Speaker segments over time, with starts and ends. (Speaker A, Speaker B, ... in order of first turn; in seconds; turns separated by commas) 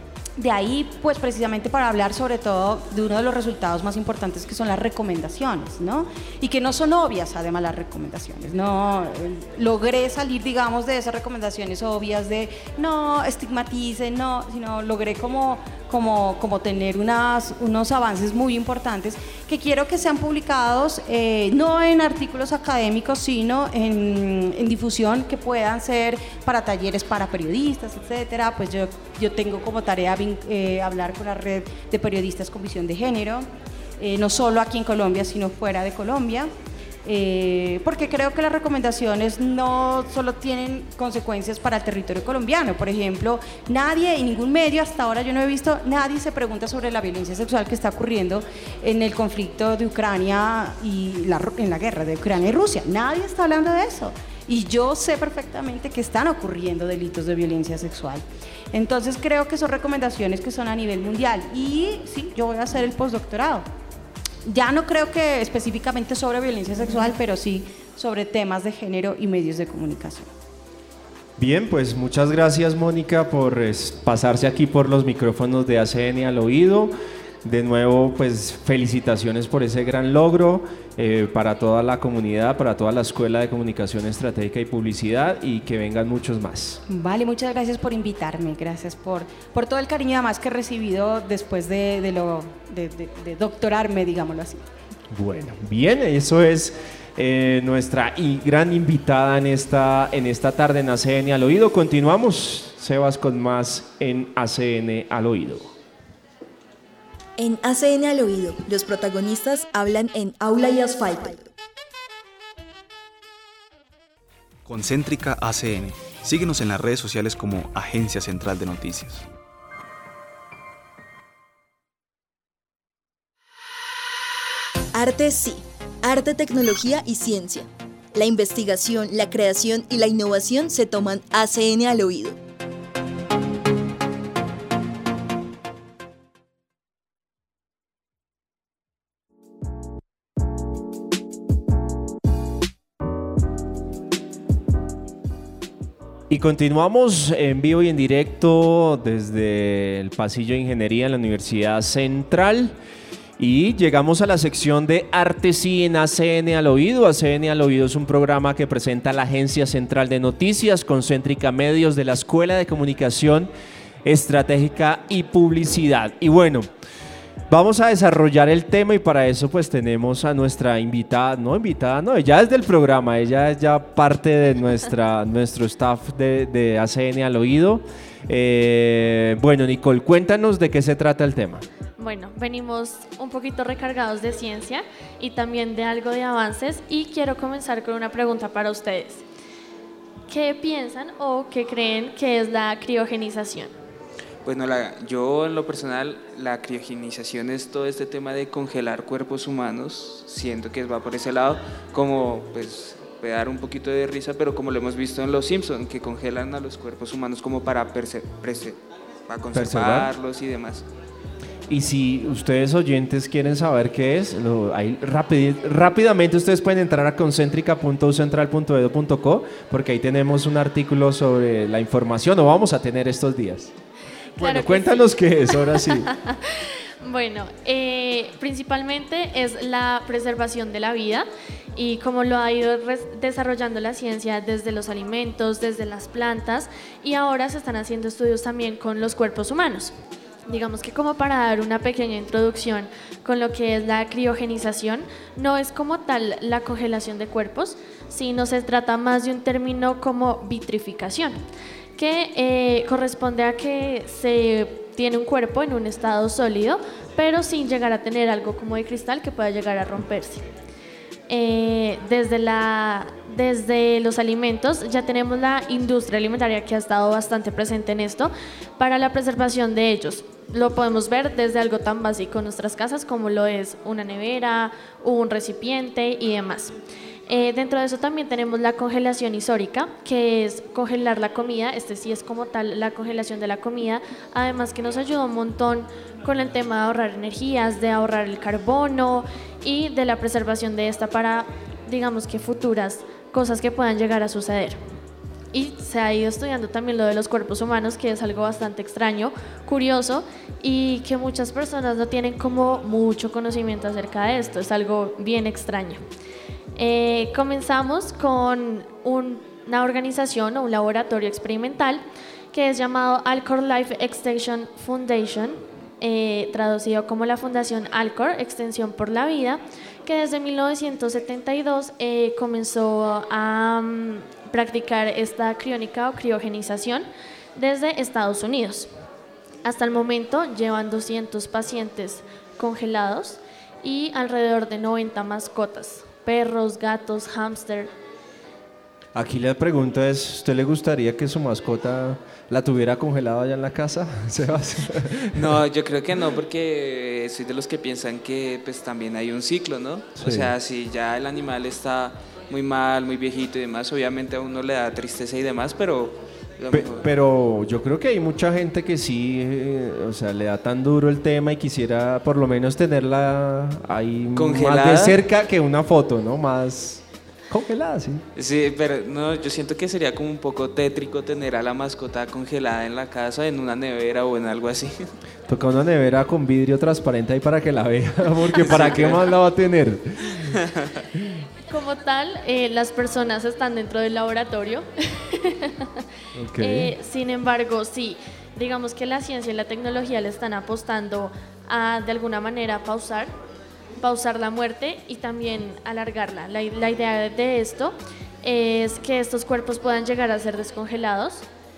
Speaker A: 0.4-36.5, Speaker A: 37.0-63.6, Speaker A: 64.5-70.3, Speaker B: 71.4-86.8, Speaker A: 86.9-94.6, Speaker B: 95.1-105.7, Speaker C: 107.4-111.5, Speaker D: 114.6-119.3, Speaker C: 124.9-132.4, Speaker B: 146.3-152.8, Speaker B: 153.4-163.5, Speaker B: 164.0-166.7, Speaker B: 167.5-181.7, Speaker E: 182.0-189.2, Speaker E: 190.3-193.7, Speaker F: 194.4-210.8, Speaker B: 209.5-210.1, Speaker B: 211.7-223.7, Speaker B: 224.3-226.1, Speaker E: 224.4-239.9, Speaker E: 240.5-251.4, Speaker E: 252.0-260.4, Speaker E: 261.3-276.7, Speaker E: 277.3-294.8, Speaker E: 295.5-306.0, Speaker E: 306.8-312.0, Speaker E: 312.5-328.9, Speaker E: 329.6-337.9, Speaker B: 339.1-345.6, Speaker F: 345.3-357.1, Speaker B: 350.2-350.5, Speaker B: 356.7-368.2, Speaker F: 364.3-365.1, Speaker F: 368.4-375.1, Speaker B: 375.5-380.6, Speaker F: 378.5-379.3, Speaker F: 380.4-380.9, Speaker E: 381.7-386.0, Speaker B: 386.3-386.9, Speaker E: 386.6-393.3, Speaker E: 394.0-401.4